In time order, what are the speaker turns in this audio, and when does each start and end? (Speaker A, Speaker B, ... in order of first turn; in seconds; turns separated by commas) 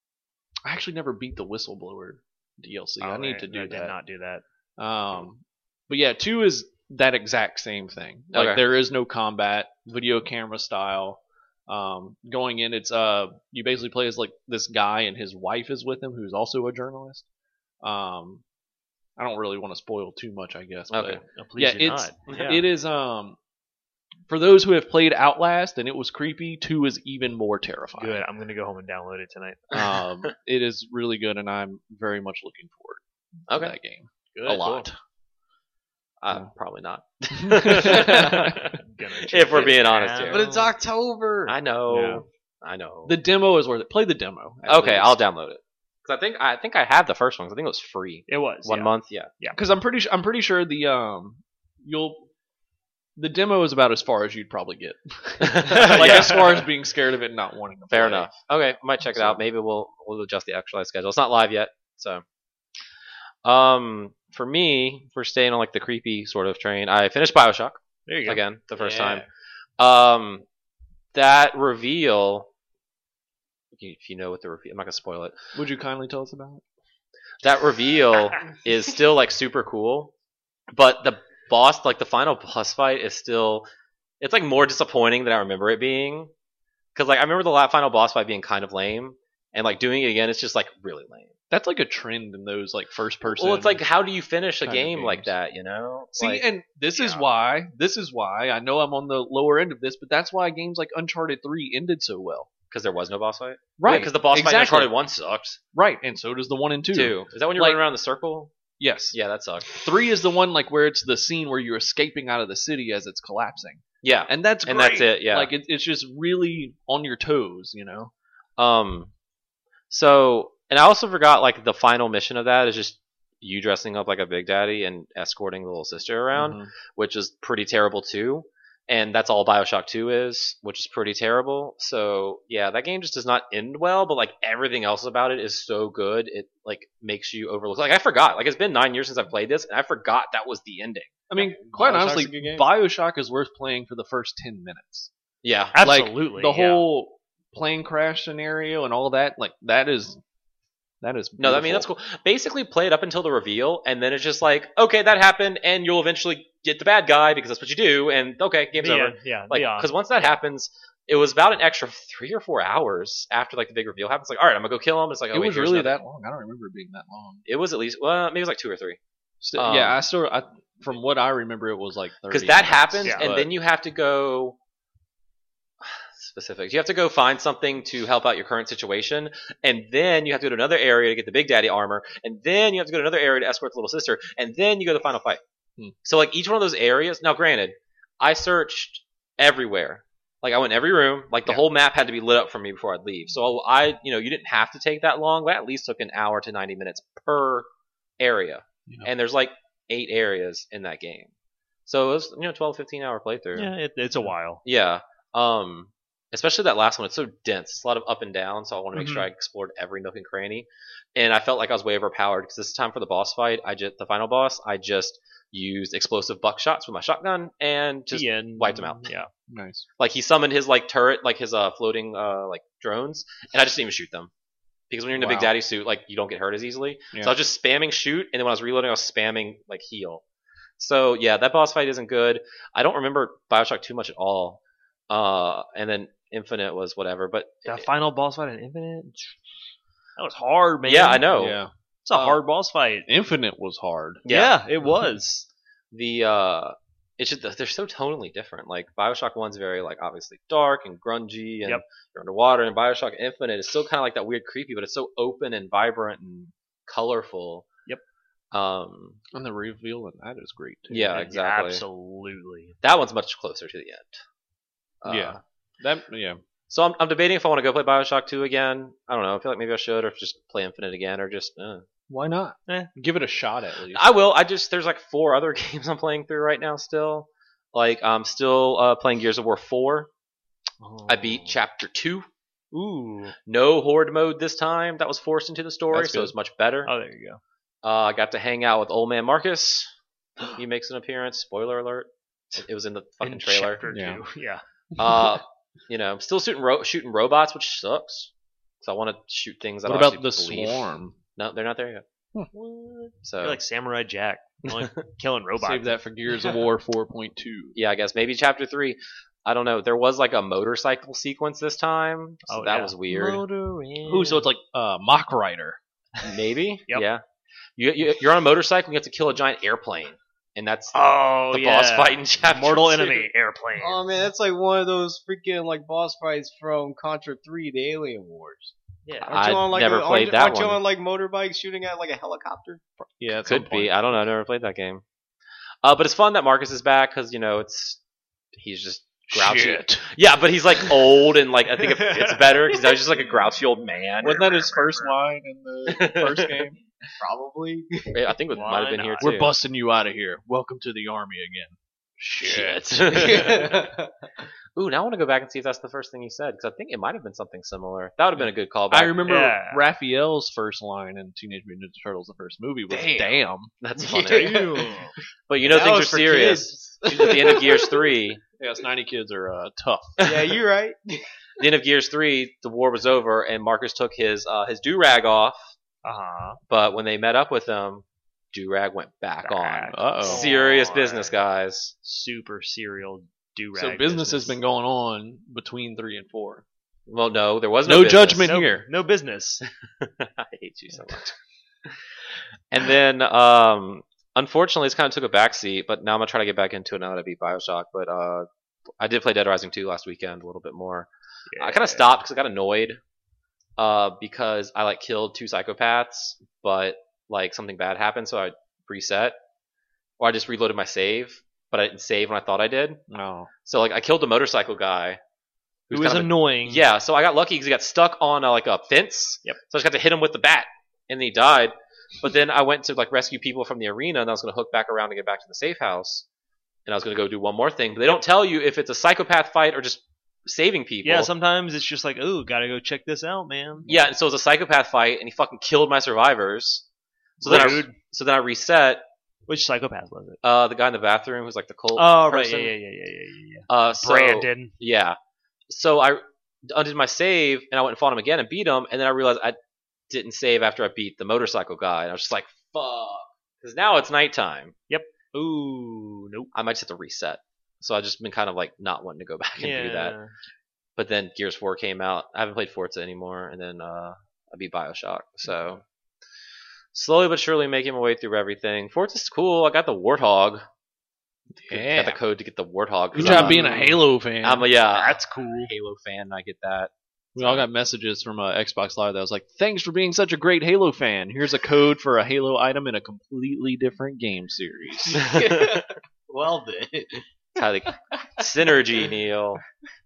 Speaker A: 0.7-4.0, Speaker B: 3.0-4.4, Speaker A: 4.8-17.2, Speaker C: 8.3-8.6, Speaker A: 17.8-18.4, Speaker A: 19.2-23.4, Speaker C: 20.9-21.2, Speaker B: 21.3-22.6, Speaker C: 22.3-22.6, Speaker A: 24.3-28.2, Speaker B: 28.0-29.7, Speaker A: 29.7-35.0, Speaker C: 33.5-33.7, Speaker C: 34.5-34.8, Speaker C: 36.2-40.4, Speaker A: 37.3-38.6, Speaker B: 38.7-40.7, Speaker D: 40.2-41.5, Speaker C: 41.5-43.2, Speaker A: 41.9-42.2, Speaker A: 43.0-45.2, Speaker C: 44.7-49.3, Speaker B: 48.3-49.6, Speaker A: 49.5-52.3, Speaker A: 53.2-58.3, Speaker C: 55.4-56.6, Speaker B: 55.9-56.3, Speaker C: 57.9-62.2, Speaker A: 59.0-59.4, Speaker C: 63.4-69.3, Speaker B: 68.1-68.4, Speaker D: 68.8-69.2, Speaker C: 69.8-70.4, Speaker C: 71.1-72.5, Speaker C: 73.7-75.3, Speaker A: 75.5-76.6, Speaker C: 77.4-80.1, Speaker C: 80.7-83.7, Speaker C: 84.2-86.3, Speaker C: 86.9-91.3, Speaker A: 91.5-93.8, Speaker C: 93.3-96.4, Speaker A: 94.6-95.3, Speaker A: 96.2-102.5, Speaker C: 97.0-97.2, Speaker C: 102.7-105.6, Speaker A: 103.8-104.9, Speaker A: 105.7-107.8, Speaker C: 106.9-108.5, Speaker A: 108.8-109.2, Speaker C: 109.1-109.7, Speaker A: 109.7-118.1, Speaker C: 114.0-115.5, Speaker C: 118.6-119.1, Speaker C: 119.9-141.2, Speaker A: 126.3-126.7, Speaker A: 141.3-145.1, Speaker D: 141.4-142.7, Speaker C: 145.4-145.8, Speaker B: 145.7-146.8, Speaker A: 145.8-150.2, Speaker A: 151.0-151.9, Speaker C: 151.4-165.9, Speaker B: 158.8-160.3, Speaker A: 165.3-167.4, Speaker C: 167.4-169.0, Speaker A: 169.4-173.5, Speaker C: 169.6-170.0, Speaker C: 172.3-174.6, Speaker C: 175.8-185.4, Speaker C: 186.0-197.7, Speaker C: 198.2-201.3, Speaker C: 201.9-203.7, Speaker B: 203.5-204.6, Speaker C: 204.6-219.1, Speaker B: 208.9-209.3, Speaker B: 218.1-219.3, Speaker A: 219.5-219.8, Speaker C: 220.0-224.3, Speaker C: 224.9-230.2, Speaker A: 225.1-225.5, Speaker C: 230.8-237.8, Speaker B: 237.7-239.4, Speaker B: 240.2-241.3, Speaker C: 240.8-241.6, Speaker A: 241.3-241.7, Speaker B: 242.1-243.1, Speaker C: 242.1-242.4, Speaker A: 243.1-244.2, Speaker C: 244.2-244.6, Speaker B: 244.3-245.4, Speaker C: 245.9-257.7, Speaker C: 258.5-259.2, Speaker A: 259.3-261.2, Speaker C: 260.9-261.8, Speaker B: 261.1-262.7, Speaker C: 262.8-264.2, Speaker C: 265.0-265.4, Speaker A: 265.1-266.4, Speaker C: 266.7-271.8, Speaker A: 272.1-274.0, Speaker C: 273.9-280.1, Speaker B: 280.8-281.6, Speaker C: 281.1-282.2, Speaker B: 282.7-283.4, Speaker C: 283.4-286.9, Speaker A: 285.9-286.3, Speaker B: 286.8-287.4, Speaker C: 287.8-289.9, Speaker C: 290.5-293.8, Speaker B: 293.2-294.6, Speaker A: 293.9-294.2, Speaker C: 295.0-298.3, Speaker C: 298.8-302.0, Speaker A: 299.9-301.1, Speaker B: 302.5-305.9, Speaker C: 303.2-303.6, Speaker A: 305.6-307.8, Speaker C: 307.8-313.4, Speaker B: 312.5-314.4, Speaker A: 314.1-315.8, Speaker C: 316.2-317.2, Speaker C: 317.8-323.3, Speaker B: 320.9-324.0, Speaker D: 323.8-332.8, Speaker B: 329.1-329.4, Speaker C: 329.3-330.8, Speaker A: 333.2-334.0, Speaker C: 333.4-335.0, Speaker C: 335.8-338.0, Speaker C: 338.5-345.1, Speaker A: 339.3-340.1, Speaker B: 341.9-343.0, Speaker A: 344.2-346.8, Speaker C: 345.9-346.7, Speaker D: 347.2-348.3, Speaker C: 348.1-349.5, Speaker B: 348.5-349.3, Speaker A: 349.2-353.4, Speaker C: 352.4-353.9, Speaker D: 353.1-354.1, Speaker C: 354.8-359.3, Speaker A: 358.9-363.7, Speaker B: 359.2-359.8, Speaker C: 363.0-364.9, Speaker D: 364.0-365.1, Speaker B: 364.3-365.1, Speaker C: 365.5-368.4, Speaker D: 365.6-368.1, Speaker A: 368.6-370.2, Speaker C: 370.2-370.6, Speaker D: 370.2-371.2, Speaker C: 371.6-375.7, Speaker B: 376.0-376.6, Speaker C: 376.7-381.9, Speaker B: 379.4-381.4, Speaker A: 379.9-380.4, Speaker B: 382.0-384.6, Speaker A: 383.7-386.6, Speaker C: 387.1-388.5, Speaker A: 387.8-388.9, Speaker B: 388.4-389.6, Speaker C: 390.0-391.3, Speaker C: 392.7-398.5, Speaker C: 399.0-403.0, Speaker B: 401.5-402.1, Speaker C: 403.8-409.4, Speaker C: 410.2-413.1, Speaker A: 413.1-413.5, Speaker C: 413.6-415.2, Speaker C: 415.9-426.2, Speaker B: 415.9-416.8, Speaker C: 426.9-431.3, Speaker B: 431.0-433.9, Speaker C: 433.9-436.8, Speaker C: 437.4-439.0, Speaker B: 437.4-437.9, Speaker B: 439.5-440.4, Speaker C: 440.4-442.7, Speaker B: 441.9-444.7, Speaker C: 443.7-445.2, Speaker C: 445.7-449.6, Speaker C: 450.1-454.7, Speaker B: 454.9-456.5, Speaker C: 456.5-460.1, Speaker B: 459.6-460.3, Speaker C: 461.0-465.8, Speaker C: 466.9-470.6, Speaker A: 471.5-472.2, Speaker C: 471.7-477.7, Speaker A: 473.1-474.7, Speaker B: 473.2-473.8, Speaker B: 474.9-475.7, Speaker A: 477.4-485.4, Speaker D: 485.1-487.2, Speaker C: 485.2-485.9, Speaker C: 487.6-489.6